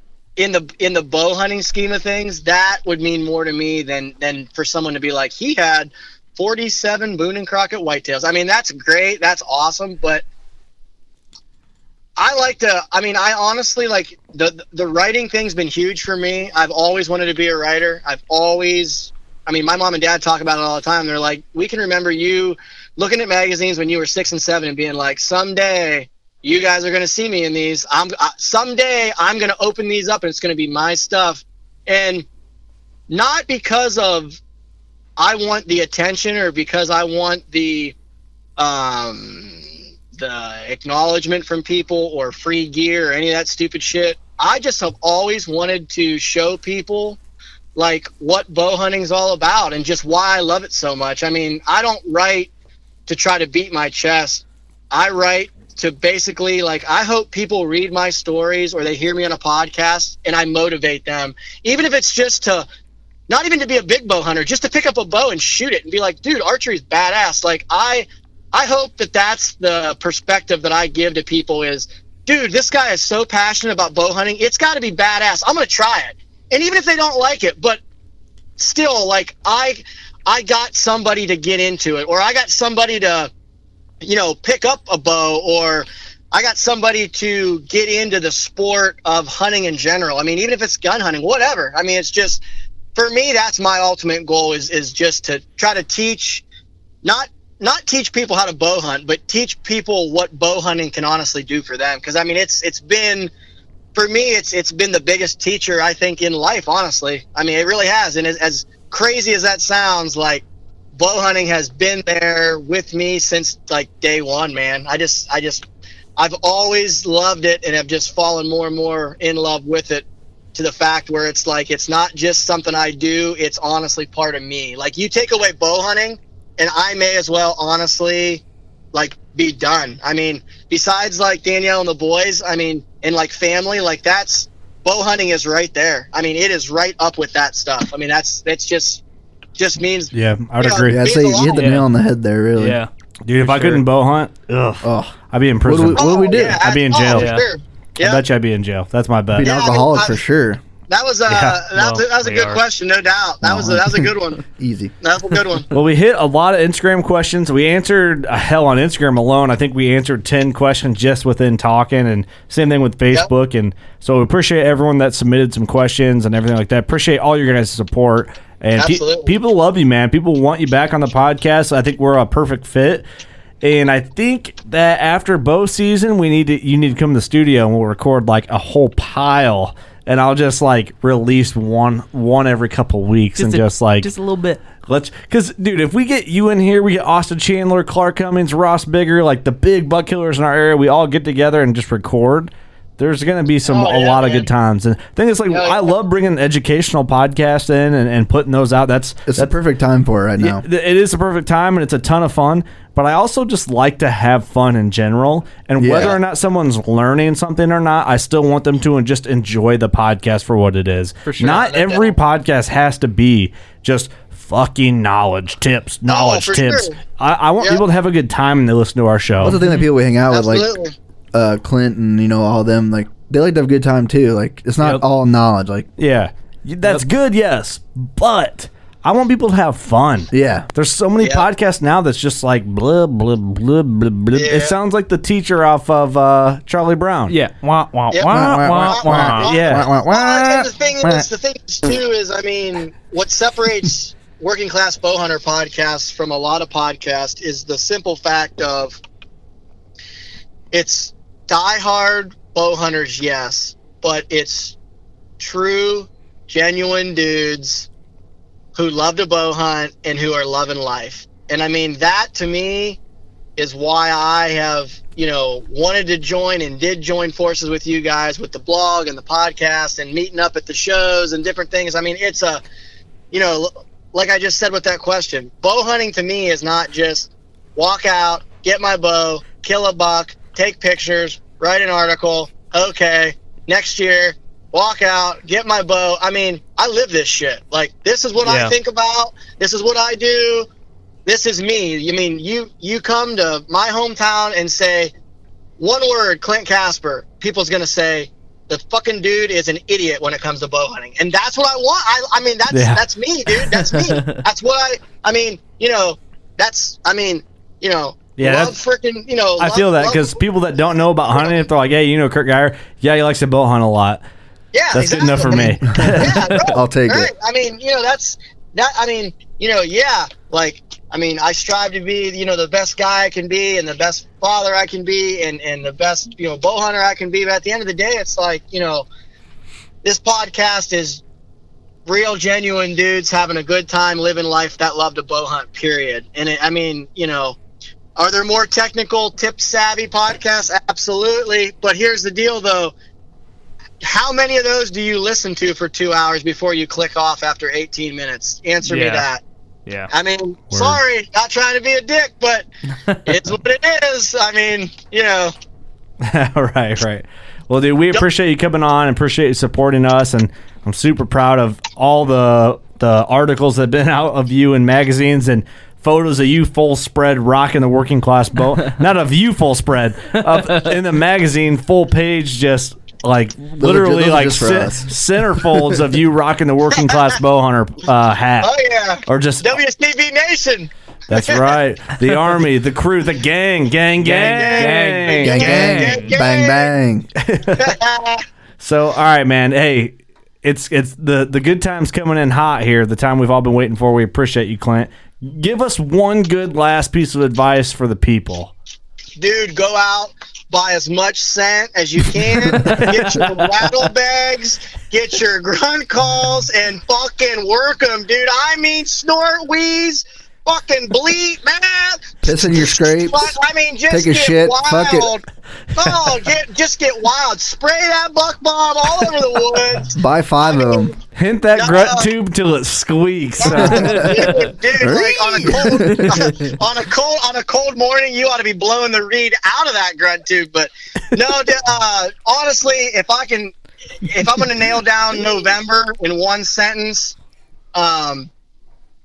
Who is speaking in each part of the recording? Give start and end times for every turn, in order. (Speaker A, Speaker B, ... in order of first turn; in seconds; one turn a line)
Speaker A: 0.4-10.2
Speaker A: 12.2-32.2
Speaker A: 33.1-34.4
Speaker A: 35.2-37.9
Speaker A: 38.6-47.2
Speaker A: 47.7-52.5
Speaker A: 53.1-62.7
Speaker A: 63.3-77.8
Speaker A: 78.6-83.3
Speaker A: 84.0-92.4
Speaker A: 92.9-96.4
Speaker A: 97.0-103.3
Speaker A: 103.9-115.7
Speaker A: 116.2-139.0
Speaker A: 139.6-141.7
Speaker B: 140.1-141.0
Speaker C: 140.9-142.8
Speaker D: 141.5-141.8
Speaker D: 142.6-142.9
Speaker B: 143.2-147.4
Speaker D: 143.4-143.8
Speaker C: 144.8-146.6
Speaker A: 145.9-148.2
Speaker D: 147.1-147.4
Speaker B: 148.0-149.5
Speaker C: 149.3-150.6
Speaker A: 149.4-150.2
Speaker A: 150.9-154.4
Speaker B: 151.3-151.6
Speaker D: 151.8-152.6
Speaker C: 153.4-154.9
Speaker A: 155.0-155.7
Speaker B: 155.7-173.1
Speaker A: 168.8-169.3
Speaker B: 173.6-184.1
Speaker D: 183.4-184.6
Speaker B: 184.9-199.5
Speaker A: 193.7-194.5
Speaker A: 195.5-195.9
Speaker C: 199.2-200.6
Speaker B: 200.4-219.6
Speaker C: 205.8-206.2
Speaker A: 211.4-212.2
Speaker A: 216.1-217.0
Speaker C: 219.4-220.7
Speaker D: 219.5-219.9
Speaker A: 220.3-220.9
Speaker C: 221.3-225.9
Speaker B: 226.0-237.4
Speaker C: 230.3-230.7
Speaker A: 231.2-231.4
Speaker A: 234.3-234.7
Speaker D: 237.3-239.4
Speaker A: 238.1-249.0
Speaker B: 238.2-241.2
Speaker C: 238.3-240.0
Speaker A: 250.7-254.8
Speaker A: 255.4-257.9
Speaker A: 258.7-263.0
Speaker A: 263.6-272.6
Speaker A: 273.3-290.7
Speaker D: 288.4-288.7
Speaker A: 291.2-295.1
Speaker A: 295.8-310.4
Speaker B: 302.7-303.0
Speaker B: 308.4-308.7
Speaker B: 309.6-314.2
Speaker A: 311.3-311.6
Speaker A: 314.7-329.1
Speaker B: 314.9-316.6
Speaker C: 316.0-317.3
Speaker A: 330.0-331.2
Speaker A: 332.1-337.6
Speaker A: 338.1-342.9
Speaker A: 344.0-349.4
Speaker D: 348.8-349.2
Speaker A: 350.1-352.6
Speaker B: 350.7-351.0
Speaker D: 353.0-353.4
Speaker A: 353.2-355.5
Speaker B: 356.2-378.7
Speaker C: 373.8-376.0
Speaker A: 378.6-381.6
Speaker B: 379.3-379.7
Speaker B: 381.3-386.3
Speaker D: 384.2-386.3
Speaker A: 384.3-386.9
Speaker C: 385.4-387.3
Speaker B: 387.4-387.9
Speaker A: 387.8-388.4
Speaker B: 388.8-398.7
Speaker A: 399.4-415.4
Speaker B: 402.8-403.1
Speaker C: 412.4-413.5
Speaker C: 414.1-415.3
Speaker A: 415.9-421.1
Speaker C: 420.2-421.1
Speaker B: 421.3-424.6
Speaker A: 421.7-422.3
Speaker A: 423.6-437.4
Speaker C: 423.7-424.3
Speaker C: 425.0-426.5
Speaker A: 437.9-438.5